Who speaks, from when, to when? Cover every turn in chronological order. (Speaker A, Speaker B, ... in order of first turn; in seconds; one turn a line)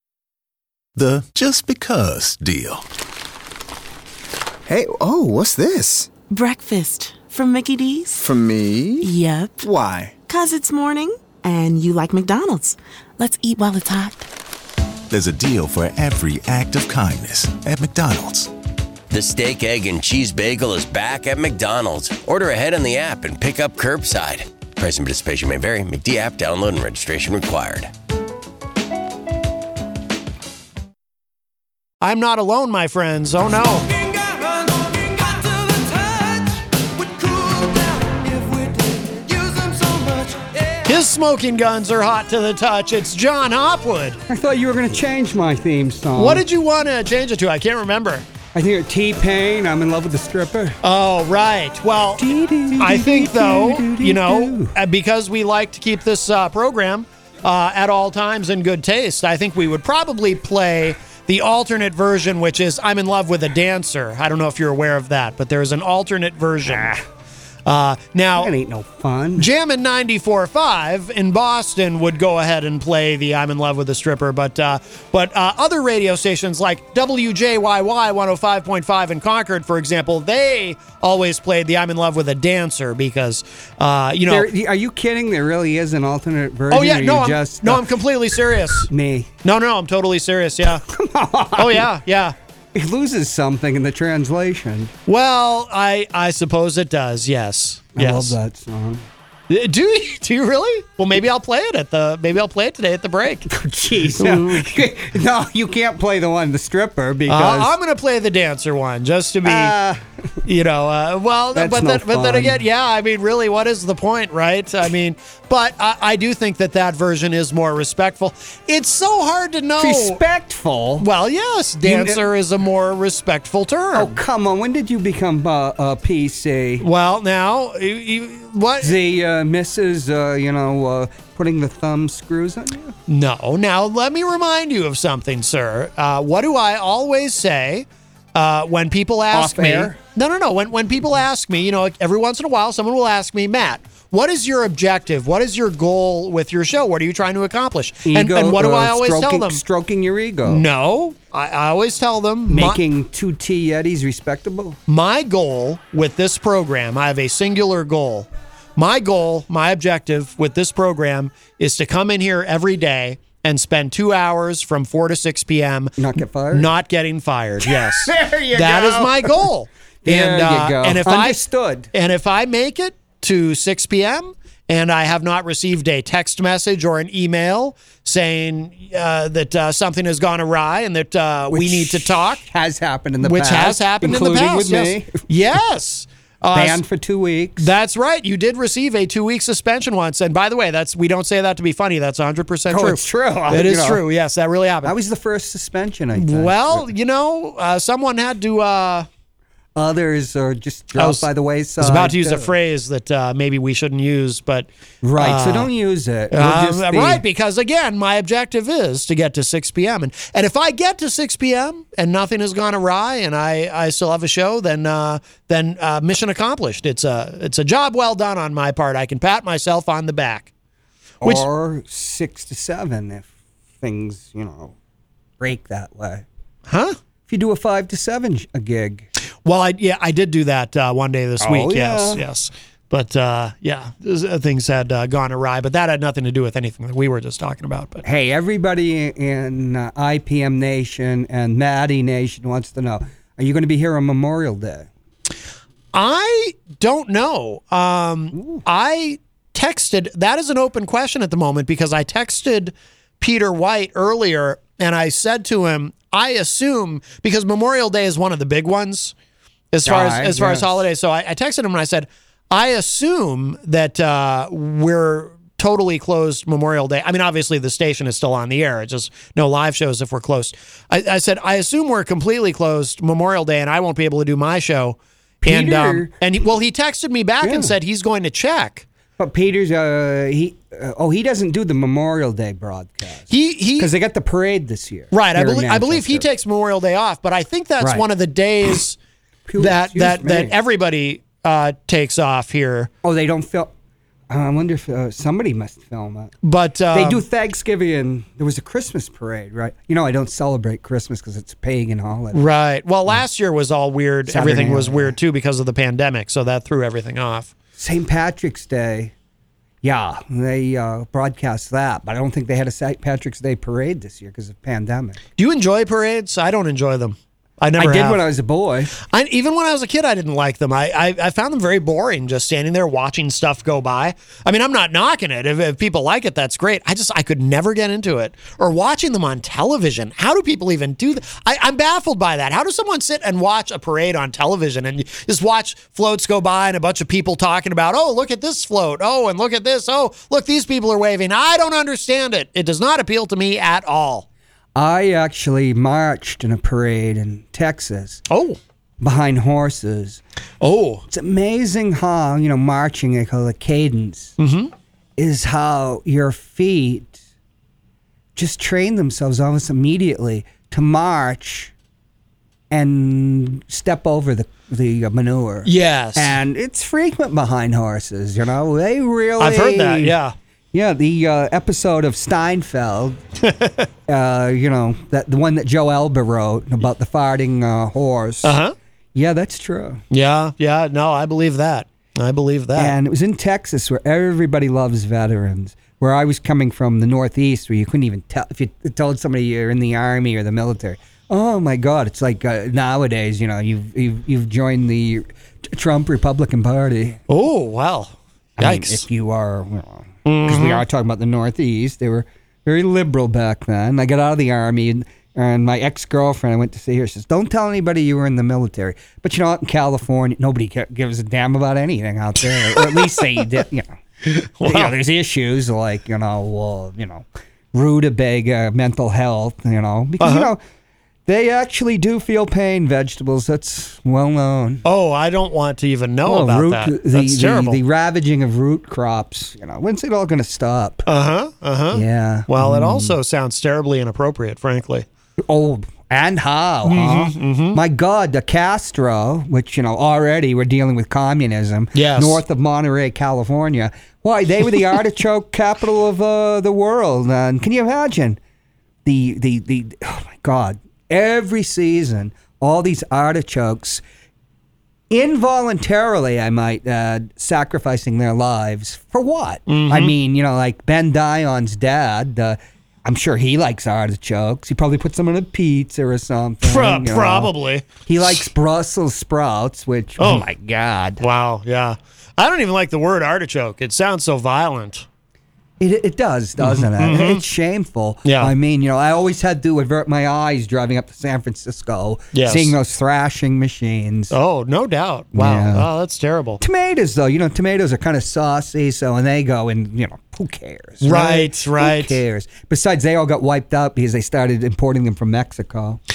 Speaker A: 0.9-2.8
Speaker B: 4.7-6.1
Speaker C: 6.3-8.2
Speaker B: 8.2-10.2
Speaker C: 9.0-9.6
Speaker C: 10.2-14.2
Speaker A: 15.1-18.5
Speaker D: 19.1-27.9
Speaker E: 32.0-34.0
Speaker F: 38.3-40.4
Speaker E: 40.8-44.2
Speaker F: 44.3-46.4
Speaker E: 46.1-48.2
Speaker F: 48.5-50.8
Speaker E: 50.8-52.3
Speaker F: 52.2-54.7
Speaker E: 52.8-66.9
Speaker F: 66.7-67.0
Speaker E: 67.7-68.5
Speaker F: 68.3-69.5
Speaker E: 69.4-84.5
Speaker F: 84.3-87.8
Speaker E: 86.7-88.9
Speaker F: 88.8-89.3
Speaker E: 89.4-90.8
Speaker F: 90.8-91.9
Speaker E: 91.5-92.3
Speaker F: 92.7-94.9
Speaker E: 95.1-98.3
Speaker F: 97.9-99.1
Speaker E: 99.5-103.5
Speaker F: 103.5-107.7
Speaker E: 104.1-104.8
Speaker E: 107.3-109.7
Speaker F: 109.4-110.0
Speaker E: 110.4-120.2
Speaker F: 111.5-112.6
Speaker F: 119.8-121.1
Speaker E: 121.0-124.2
Speaker F: 121.8-122.2
Speaker F: 123.9-126.8
Speaker E: 126.8-129.0
Speaker F: 128.8-132.9
Speaker E: 133.1-149.6
Speaker F: 139.3-140.0
Speaker F: 148.0-150.7
Speaker E: 150.4-152.8
Speaker F: 152.5-154.8
Speaker E: 154.9-165.9
Speaker F: 166.0-166.7
Speaker E: 166.5-171.4
Speaker F: 167.6-169.4
Speaker F: 170.0-171.9
Speaker E: 171.9-182.4
Speaker F: 181.5-185.2
Speaker E: 183.2-186.8
Speaker F: 186.5-187.7
Speaker E: 187.6-194.9
Speaker F: 192.7-194.0
Speaker F: 194.8-196.9
Speaker E: 196.1-199.1
Speaker F: 199.8-202.5
Speaker E: 200.9-201.3
Speaker E: 201.8-205.7
Speaker F: 205.0-207.2
Speaker E: 206.3-220.5
Speaker E: 221.2-221.4
Speaker F: 221.2-223.3
Speaker F: 223.8-224.7
Speaker F: 225.4-226.2
Speaker E: 226.7-226.9
Speaker F: 227.3-229.1
Speaker E: 229.4-238.0
Speaker F: 231.4-232.2
Speaker F: 238.0-244.9
Speaker E: 245.9-259.1
Speaker F: 248.3-248.6
Speaker E: 259.7-278.9
Speaker F: 259.8-260.8
Speaker F: 275.4-276.1
Speaker F: 277.4-277.7
Speaker F: 279.2-286.3
Speaker E: 283.3-283.9
Speaker E: 285.1-289.0
Speaker F: 287.8-288.0
Speaker F: 289.4-290.6
Speaker E: 289.6-292.9
Speaker F: 293.0-293.7
Speaker F: 294.3-296.3
Speaker E: 296.4-297.2
Speaker F: 296.9-302.4
Speaker E: 302.3-307.5
Speaker F: 304.3-305.2
Speaker F: 307.8-309.1
Speaker F: 309.8-315.2
Speaker E: 315.4-318.2
Speaker F: 317.8-318.9
Speaker E: 319.0-344.2
Speaker F: 344.7-348.2
Speaker E: 348.3-348.6
Speaker F: 349.0-350.2
Speaker E: 350.6-351.0
Speaker F: 351.1-354.4
Speaker E: 354.4-354.7
Speaker F: 355.2-357.2
Speaker F: 358.4-361.7
Speaker F: 362.7-370.2
Speaker E: 365.6-366.3
Speaker E: 369.4-370.3
Speaker F: 370.7-373.2
Speaker E: 373.4-373.9
Speaker F: 374.1-378.6
Speaker E: 378.4-378.7
Speaker F: 379.1-380.0
Speaker E: 380.1-383.0
Speaker F: 382.7-397.2
Speaker E: 397.3-399.1
Speaker F: 398.6-414.0
Speaker E: 400.2-400.8
Speaker E: 412.7-413.4
Speaker E: 414.2-414.9
Speaker F: 414.6-420.6
Speaker E: 420.2-420.5
Speaker F: 421.2-424.8
Speaker E: 424.8-427.8
Speaker F: 426.2-431.1
Speaker E: 431.1-435.1
Speaker F: 431.9-433.2
Speaker F: 435.4-448.4
Speaker E: 436.8-437.8
Speaker E: 441.9-442.4
Speaker F: 449.0-454.0
Speaker F: 455.1-467.5
Speaker E: 459.7-460.1
Speaker E: 466.6-468.4
Speaker F: 468.0-471.2
Speaker E: 470.2-470.4
Speaker E: 471.2-475.1
Speaker F: 475.8-484.3
Speaker E: 476.6-477.4
Speaker E: 478.2-478.5
Speaker E: 482.3-482.8
Speaker E: 484.3-486.6
Speaker F: 485.3-485.9
Speaker F: 486.6-496.0
Speaker E: 491.0-492.2